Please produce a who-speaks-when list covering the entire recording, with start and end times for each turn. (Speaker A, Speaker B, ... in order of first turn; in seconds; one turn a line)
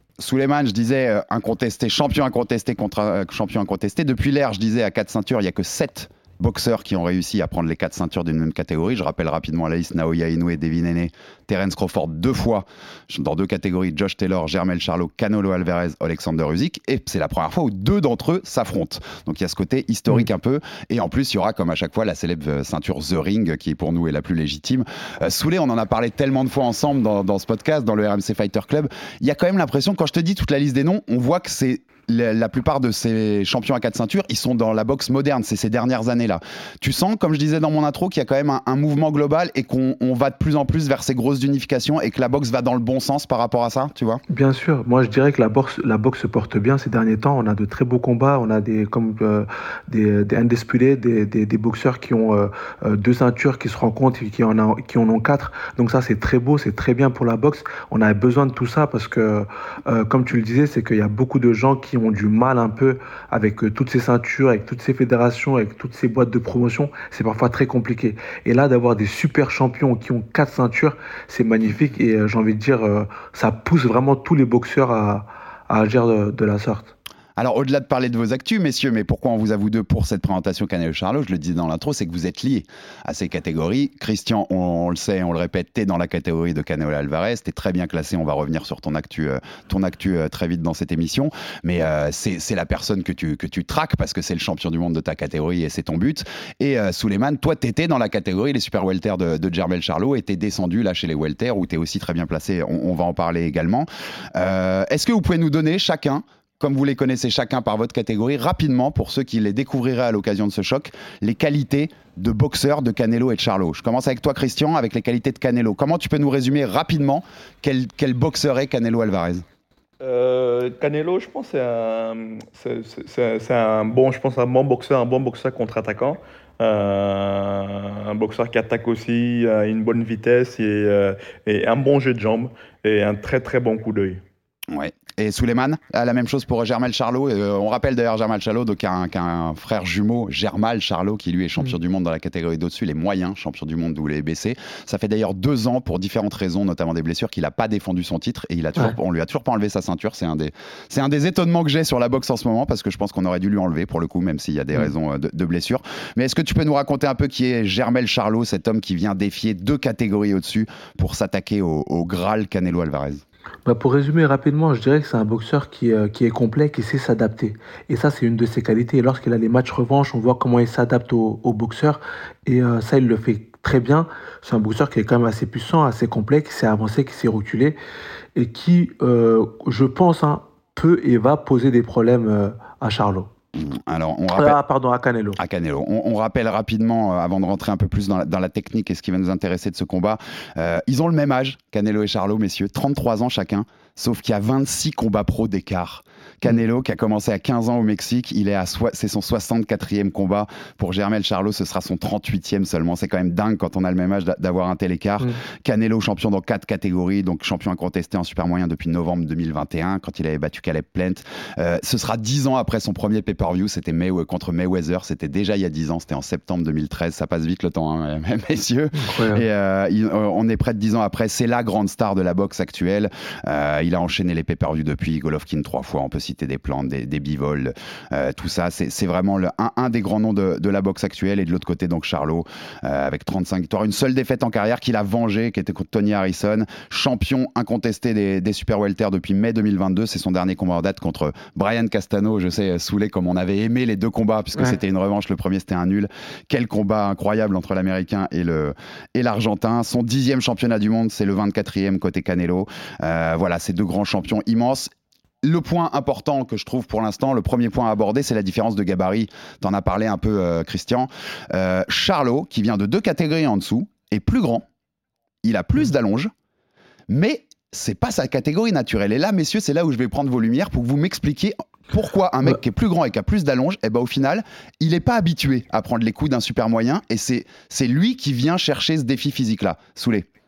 Speaker A: 0.2-44.2
Speaker B: 44.3-76.9
Speaker A: 77.4-119.4
Speaker C: 120.0-134.2
Speaker A: 134.7-163.2
Speaker B: 163.7-177.8
Speaker B: 178.3-183.3
Speaker A: 183.5-184.6
Speaker B: 184.3-185.4
Speaker A: 185.4-254.9
Speaker B: 218.9-219.4
Speaker A: 255.4-264.6
Speaker A: 265.4-266.3
Speaker A: 267.1-280.2